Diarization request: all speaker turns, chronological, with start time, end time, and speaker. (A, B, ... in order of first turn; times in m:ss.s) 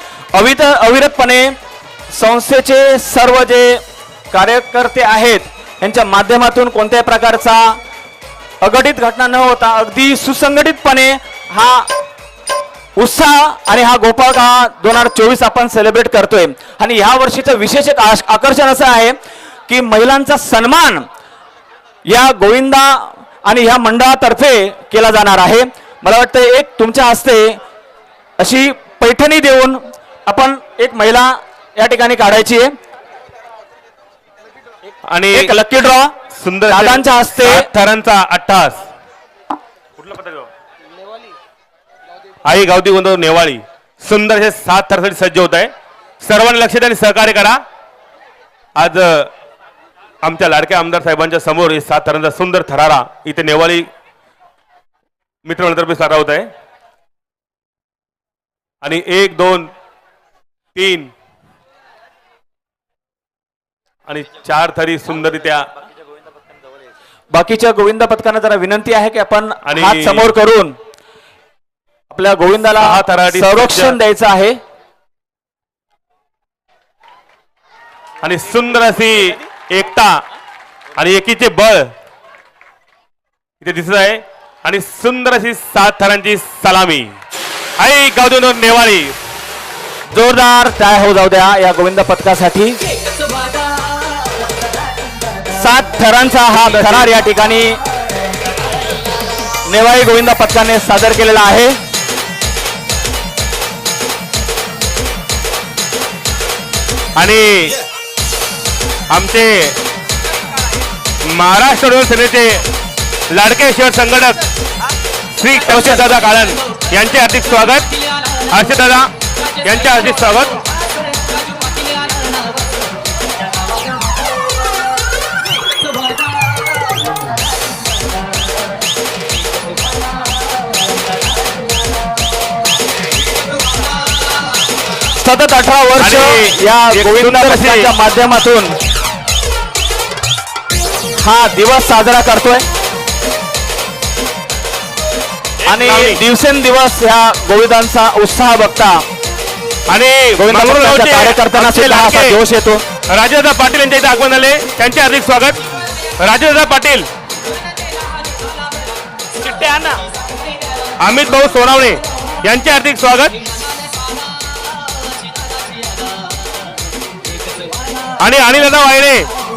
0:00.3-0:01.6 A
0:02.1-0:07.8 A
0:08.6-0:11.9 A
0:13.0-0:19.2 A
0:19.7-0:21.0 A
0:22.1-0:27.6 A
0:28.4-0:32.7 A
0:35.1-0:35.5 B
0:35.3-0:36.1 A
0:36.3-0:38.9 B
0:36.7-0:37.7 A
0:40.0-0:40.5 B
0:42.4-0:47.6 B
0:48.8-0:49.3 B
0:50.2-0:53.9 B
0:55.4-0:56.5 B
0:58.8-0:59.7 B
1:00.7-1:01.1 B
1:04.1-1:05.7 B
1:07.3-1:10.8 A
1:09.6-1:10.3 B
1:12.1-1:14.6 A
1:12.8-1:14.0 B
1:18.2-1:20.2 B
1:21.0-1:21.9 B
1:23.6-1:27.1 B
1:27.8-1:29.2 B
1:30.1-1:32.8 A
1:35.5-1:37.8 A
1:36.6-1:37.1 B
1:39.6-1:41.8 A
1:47.2-1:47.8 B
1:49.1-1:49.8 B
1:51.2-1:52.6 B
1:53.3-1:54.4 B
1:55.3-1:57.9 B
1:58.4-2:00.6 B
2:15.2-2:18.7 A
2:16.0-2:17.9 B
2:21.2-2:22.6 A
2:25.6-2:26.2 B
2:25.7-2:29.0 A
2:29.9-2:32.4 B
2:30.4-2:32.8 A
2:33.1-2:35.6 B
2:36.2-2:37.1 B
2:39.5-2:40.0 A
2:41.0-2:43.3 B
2:48.2-2:49.3 B